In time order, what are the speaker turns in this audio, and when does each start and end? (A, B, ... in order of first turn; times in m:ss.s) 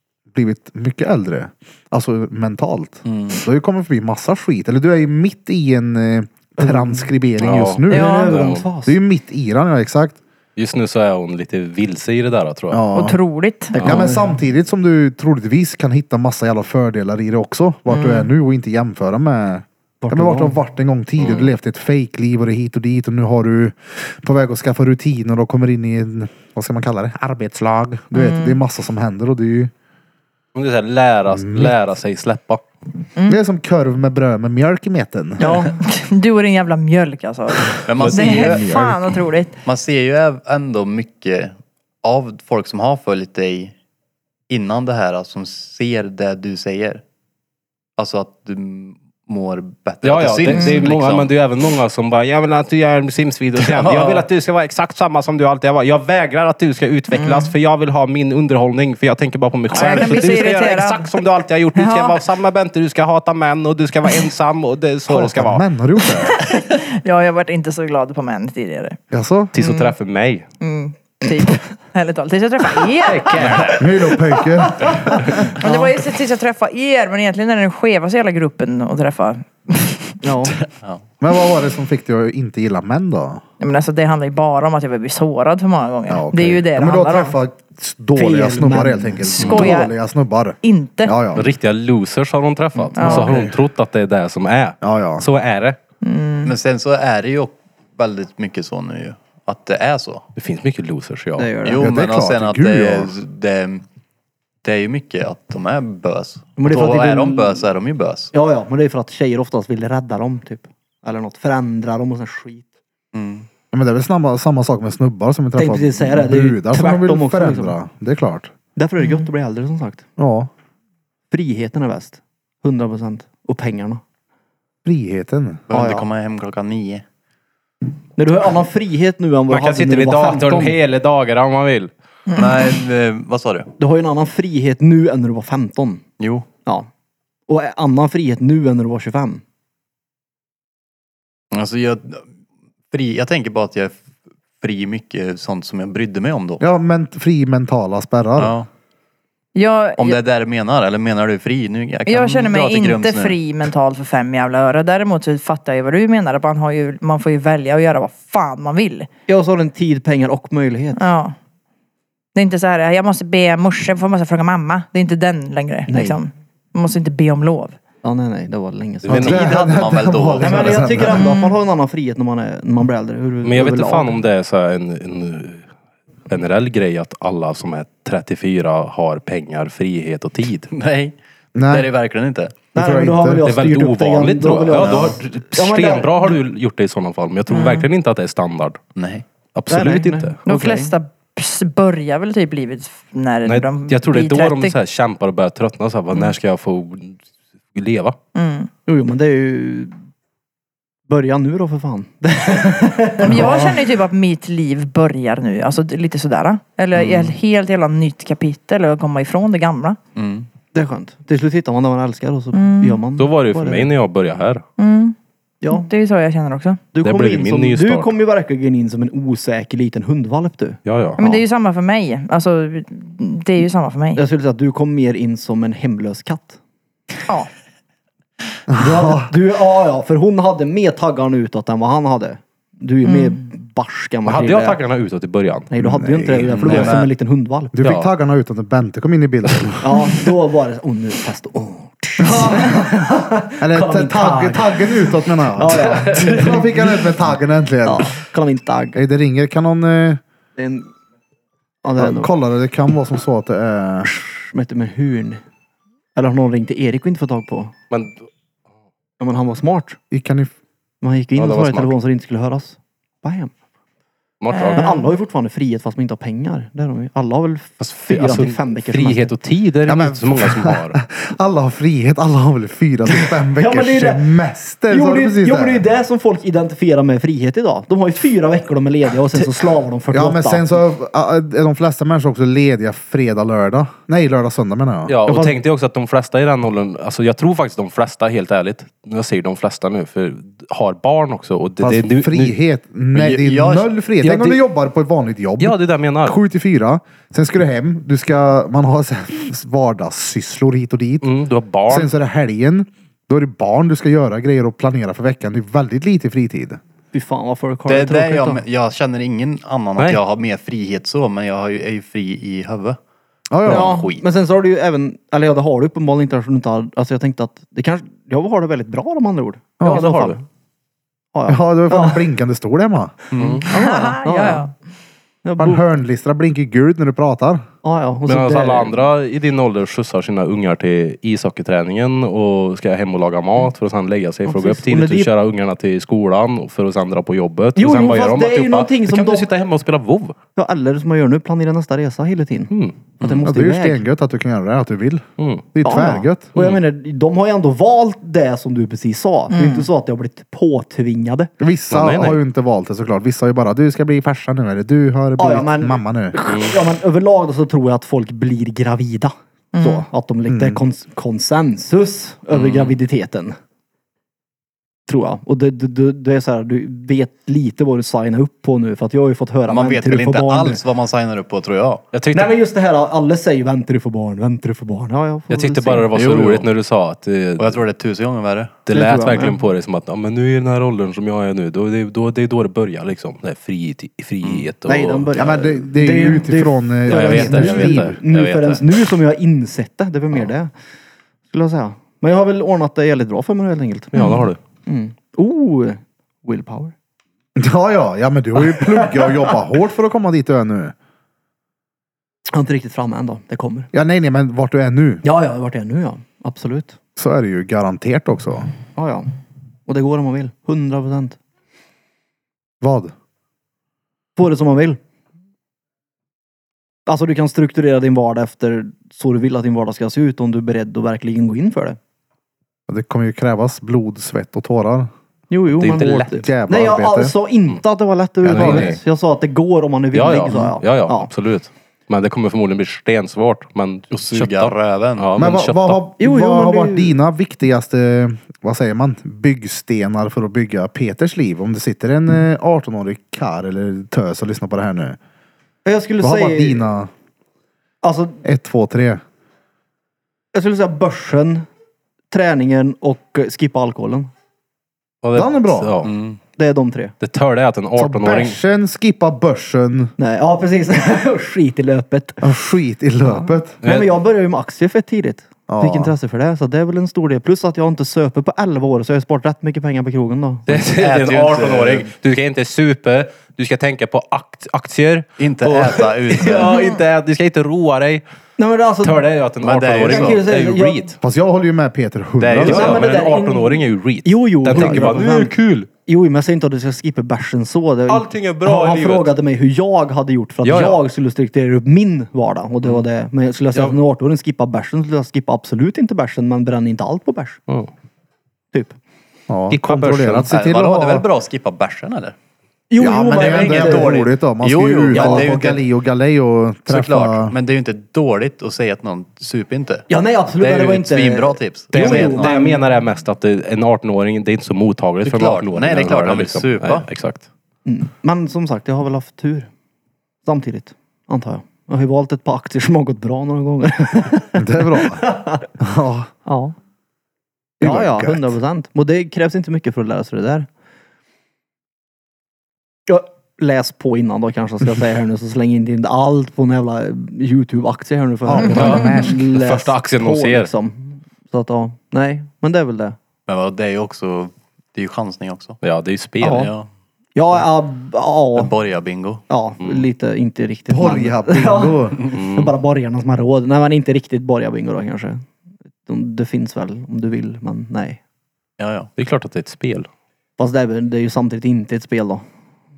0:00.3-0:08.3 A
0:03.1-0:03.4 B
0:06.6-0:07.0 C
0:07.4-0:08.7 D
0:07.9-0:08.4 E
0:07.9-0:09.0 C
0:08.8-0:10.2 A
0:10.6-0:12.8 D
0:12.7-0:13.2 A
0:12.9-0:13.8 E
0:13.8-0:14.3 C
0:13.8-0:29.7 A
0:17.9-0:18.3 E
0:20.0-0:20.6 C
0:21.2-0:21.5 D
0:28.1-0:28.6 E
0:30.6-0:32.6 D
0:31.3-0:31.8 A
0:33.3-0:35.4 A
0:35.4-0:35.8 C
0:35.4-0:39.6 E
0:37.9-0:38.7 B
0:38.0-0:38.6 D
0:38.2-0:39.0 A
0:39.6-0:43.7 B
0:44.5-0:47.0 B
0:48.0-0:51.3 B
0:50.0-1:05.6 D
0:50.5-0:50.8 E
0:53.6-0:54.3 B
0:57.1-0:57.5 E
0:59.7-1:01.1 E
1:01.8-1:02.2 E
1:05.1-1:06.4 A
1:06.3-1:09.0 E
1:09.1-1:09.5 A
1:09.5-1:10.5 D
1:09.6-1:09.9 E
1:10.6-1:13.7 E
1:13.0-1:13.8 D
1:13.8-1:15.4 A
1:15.5-1:20.2 E
1:15.6-1:15.9 C
1:20.2-1:20.6 C
1:20.6-1:21.0 B
1:21.2-1:23.4 A
1:23.6-1:27.4 E
1:26.1-1:31.5 A
1:28.2-1:29.6 C
1:29.4-1:29.9 E
1:30.6-1:31.2 E
1:31.4-1:35.8 D
1:33.0-1:33.4 E
1:33.0-1:33.6 A
1:34.8-1:35.3 A
1:36.0-1:36.6 E
1:36.4-1:40.3 B
1:40.4-1:41.5 D
1:41.4-1:41.9 C
1:41.6-1:43.8 B
1:41.8-1:43.2 A
1:44.6-1:48.3 B
1:46.6-1:47.7 C
1:48.3-1:52.7 C
1:53.1-1:53.5 B
1:53.7-1:58.5 A
1:55.6-1:57.8 C
1:58.8-2:00.0 C
1:59.0-1:59.3 E
2:00.2-2:00.5 A
2:01.3-2:04.0 C
2:04.8-2:05.6 A
2:05.7-2:07.0 B
2:05.7-2:06.1 C
2:08.2-2:10.8 C
2:09.5-2:11.9 D
2:12.3-2:13.7 B
2:13.8-2:16.0 C
2:16.2-2:16.5 B
2:17.5-2:19.4 C
2:21.5-2:22.2 B
2:22.9-2:24.0 B
2:24.6-2:26.6 B
2:26.6-2:28.6 A
2:28.4-2:28.7 B
2:29.6-2:30.2 E
2:30.0-2:33.4 B
2:32.1-2:39.1 E
2:39.3-2:41.0 C
2:41.0-2:41.4 E
2:42.4-2:47.8 E
2:45.9-2:46.2 C
2:48.0-2:49.4 C
2:49.0-2:49.4 D
2:49.1-2:51.1 B
2:49.1-2:51.3 A
2:50.4-2:54.2 C
2:51.1-2:51.5 E
2:53.4-2:55.7 D
2:56.3-3:00.7 D
3:00.7-3:01.2 B
3:01.6-3:01.9 A
3:01.7-3:02.6 B
3:02.7-3:06.4 C
3:02.8-3:03.4 A
3:03.4-3:08.8 D
3:04.8-3:05.2 B
3:07.5-3:07.9 E
3:09.0-3:09.2 B
3:09.5-3:10.4 D
3:09.7-3:10.9 C
3:10.4-3:14.8 E
3:13.4-3:17.2 D
3:17.7-3:18.2 D
3:18.4-3:18.7 E
3:18.9-3:19.9 C
3:21.1-3:23.9 C
3:23.2-3:30.0 E
3:27.0-3:27.3 B
3:30.2-3:30.5 B
3:30.7-3:33.9 C
3:32.5-3:33.0 E
3:33.2-3:34.6 D
3:34.8-3:35.2 E
3:35.6-3:35.9 C
3:35.7-3:36.9 E
3:36.9-3:40.8 C
3:37.0-3:38.2 D
3:40.9-3:41.4 D
3:41.2-3:44.2 E
3:44.2-3:46.6 C
3:48.7-3:49.3 A
3:48.8-3:54.8 C
3:53.0-3:53.4 E
3:54.2-3:55.7 D
3:55.7-3:57.8 C
3:55.8-3:57.0 A
3:56.5-3:57.1 B
3:56.7-3:57.0 D
3:57.7-3:59.9 A
3:57.8-3:58.1 D
3:59.8-4:07.0 C
4:02.2-4:03.0 A
4:03.6-4:08.1 A
4:07.8-4:09.0 C
4:09.0-4:10.2 A
4:10.6-4:10.9 C
4:11.8-4:12.3 C
4:12.0-4:14.1 A
4:14.1-4:15.4 C
4:16.2-4:17.7 C
4:17.9-4:18.2 D
4:19.2-4:20.0 C
4:20.1-4:20.5 A
4:21.0-4:23.5 C
4:21.4-4:22.0 D
4:24.4-4:25.0 D
4:24.5-4:25.1 E
4:24.8-4:29.3 C
4:27.9-4:31.0 D
4:29.9-4:35.9 A
4:33.6-4:34.3 C
4:34.9-4:40.7 C
4:40.1-4:45.1 A
4:45.1-4:52.6 D
4:45.3-4:45.6 C
4:51.8-5:01.3 A
4:53.1-4:53.9 B
4:54.2-4:54.6 D
4:55.6-4:56.4 D
5:01.2-5:02.1 D
5:01.9-5:06.8 A
5:07.1-5:08.6 C
5:07.9-5:13.0 B
5:13.5-5:13.9 A
5:13.6-5:14.2 B
5:13.6-5:20.4 C
5:19.8-5:20.1 A
5:19.8-5:20.4 D
5:21.3-5:22.2 C
5:21.5-5:23.2 A
5:23.3-5:23.6 B
5:23.4-5:23.6 D
5:23.6-5:24.7 C
5:23.7-5:24.7 E
5:25.4-5:25.8 C
5:25.6-5:27.6 A
5:27.8-5:29.0 C
5:28.3-5:40.4 D
5:34.5-5:35.3 C
5:37.8-5:39.5 C
5:40.6-5:44.0 C
5:42.7-5:43.0 D
5:43.4-5:46.5 A
5:45.4-5:45.6 D
5:45.8-5:51.5 C
5:46.6-5:46.8 D
5:49.5-5:49.9 E
5:51.6-5:56.4 A
5:51.9-5:52.4 D
5:55.4-6:03.6 C
5:56.5-5:56.8 D
5:59.7-6:00.0 E
6:00.5-6:00.8 A
6:02.5-6:03.0 B
6:05.1-6:10.8 C
6:09.7-6:12.0 B
6:12.1-6:12.6 D
6:12.3-6:16.1 C
6:15.5-6:17.8 D
6:16.1-6:16.7 B
6:17.6-6:18.8 B
6:18.9-6:25.4 D
6:18.9-6:19.6 C
6:19.0-6:19.4 A
6:24.9-6:30.7 C
6:25.4-6:28.2 A
6:27.1-6:28.8 D
6:31.5-6:34.3 C
6:34.2-6:34.6 D
6:34.2-6:34.4 E
6:34.9-6:36.9 C
6:37.6-6:40.9 A
6:38.6-6:39.5 C
6:42.5-6:43.9 C
6:43.9-6:45.2 A
6:45.2-6:47.0 C
6:47.2-6:48.7 A
6:49.0-6:49.3 C
6:49.9-6:51.4 C
6:52.8-6:53.1 A
6:54.4-6:55.0 C
6:57.1-7:02.0 C
7:02.9-7:05.1 A
7:05.5-7:11.3 C
7:05.7-7:06.5 D
7:06.4-7:07.3 A
7:08.4-7:09.0 A
7:08.5-7:09.0 D
7:10.1-7:16.0 D
7:14.1-7:15.3 B
7:15.4-7:25.2 A
7:16.2-7:17.2 C
7:25.8-7:26.8 C
7:26.2-7:27.1 A
7:28.0-7:28.4 C
7:28.4-7:29.2 A
7:30.5-7:31.7 C
7:32.3-7:34.3 C
7:35.2-7:36.1 D
7:35.3-7:36.0 A
7:36.0-7:36.4 B
7:36.6-7:37.1 C
7:37.2-7:38.6 D
7:38.0-7:40.1 A
7:40.2-7:42.5 C
7:42.4-7:43.8 A
7:43.8-7:44.1 D
7:43.8-7:50.7 C
7:45.7-7:46.1 A
7:50.7-7:58.2 D
7:50.8-7:52.1 B
7:55.4-7:56.8 B
7:58.6-7:59.2 C
7:59.0-8:01.2 D
7:59.6-8:00.4 B
8:00.0-8:01.1 C
8:01.2-8:03.1 A
8:02.4-8:05.9 D
8:02.6-8:05.5 C
8:06.1-8:17.6 C
8:08.1-8:09.3 D
8:10.6-8:11.0 D
8:19.5-8:21.2 A
8:19.7-8:20.5 D
8:20.5-8:22.4 B
8:22.9-8:24.3 C
8:23.0-8:27.6 A
8:23.3-8:25.8 B
8:25.1-8:25.5 C
8:26.9-8:30.1 B
8:30.1-8:32.8 C
8:30.6-8:32.6 B
8:31.9-8:37.4 D
8:35.2-8:37.1 B
8:37.9-8:39.7 C
8:40.4-8:45.7 C
8:44.6-8:45.2 A
8:45.8-8:46.3 A
8:46.5-8:46.8 C
8:47.8-8:50.7 C
8:47.8-8:48.6 A
8:53.1-9:03.2 C
8:58.5-8:59.4 A
8:58.7-9:00.7 D
9:03.5-9:05.8 B
9:05.8-9:06.7 D
9:06.4-9:06.7 C
9:06.4-9:06.9 B
9:07.4-9:08.7 C
9:08.6-9:09.4 B
9:09.5-9:15.4 C
9:10.9-9:12.2 A
9:12.3-9:12.7 D
9:16.1-9:18.2 C
9:18.8-9:19.1 B
9:19.2-9:20.1 D
9:20.6-9:22.4 C